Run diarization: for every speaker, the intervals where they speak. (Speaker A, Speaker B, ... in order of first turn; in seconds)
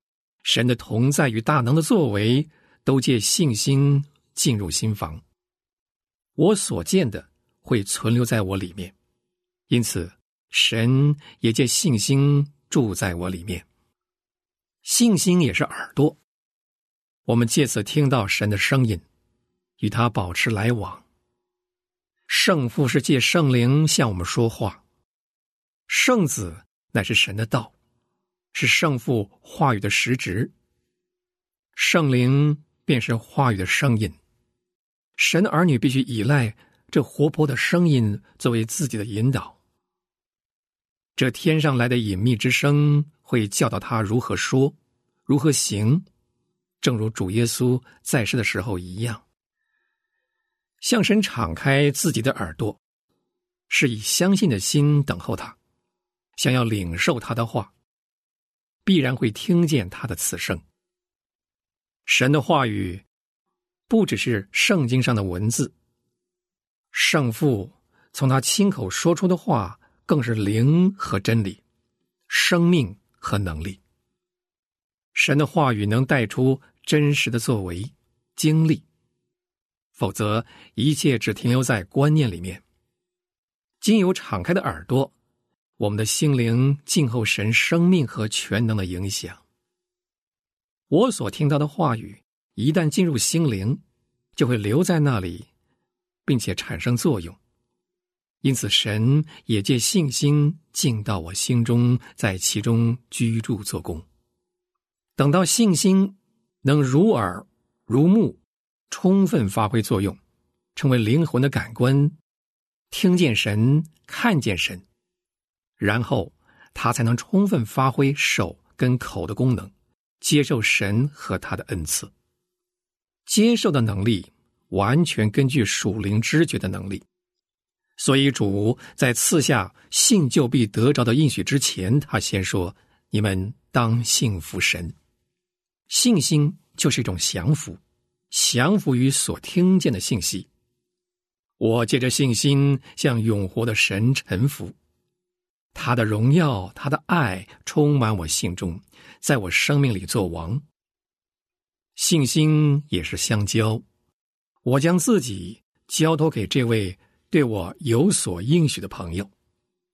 Speaker A: 0.4-5.2, 6.4-8.9, 9.7-13.6, 14.8-16.2, 17.2-19.0, 19.8-21.0, 22.3-24.8, 25.9-27.7, 28.5-30.5, 31.8-34.2, 35.2-39.6, 41.1-44.8, 45.3-46.0, 46.8-49.2, 50.8-52.8, 53.7-55.5, 56.4-57.7, 58.8-60.6, 62.0-63.0, 63.9-65.7, 66.9-71.6, 72.3-73.8, 75.1-78.8, 80.0-82.6, 83.8-85.1, 85.8-89.4, 90.9-93.8, 94.3-95.5, 96.2-97.4, 98.4-104.0, 105.2-110.2, 110.7-112.2, 112.9-114.8, 115.8-122.1, 123.3-127.0, 128.0-134.9, 135.9-137.8, 138.3-140.5, 141.6-144.7, 145.7-150.6, 151.9-153.8, 154.6-159.3